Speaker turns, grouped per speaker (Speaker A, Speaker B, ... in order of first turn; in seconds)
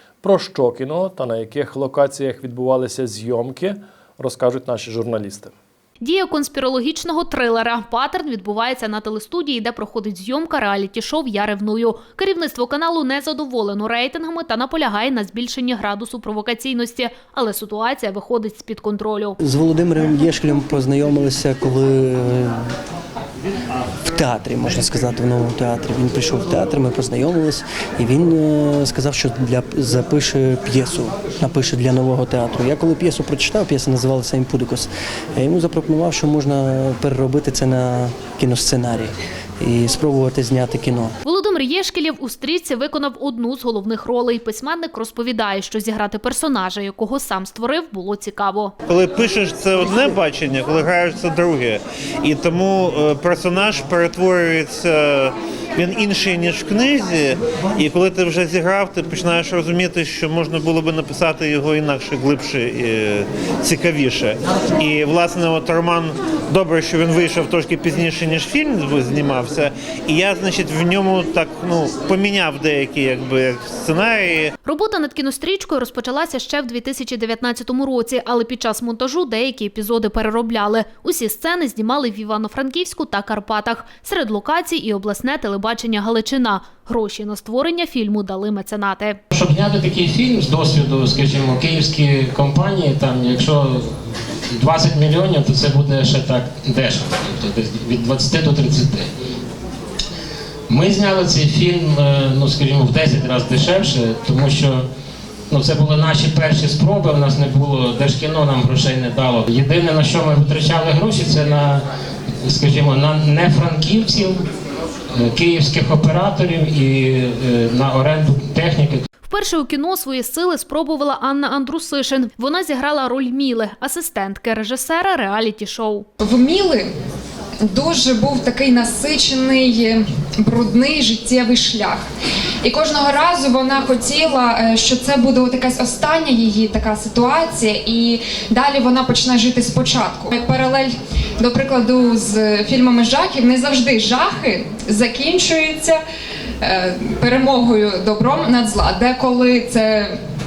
Speaker A: 0.2-5.5
Speaker B: 6.0-19.4, 41.2-48.7, 74.6-89.2, 119.3-126.1
Speaker C: 19.4-22.6, 24.1-41.1
Speaker D: 48.9-74.5
Speaker E: 89.3-93.9, 94.5-99.1, 100.7-104.8, 105.5-111.8, 112.4-114.4, 115.1-119.0
Speaker F: 126.2-126.9, 127.6-132.0, 132.6-146.0, 146.6-150.2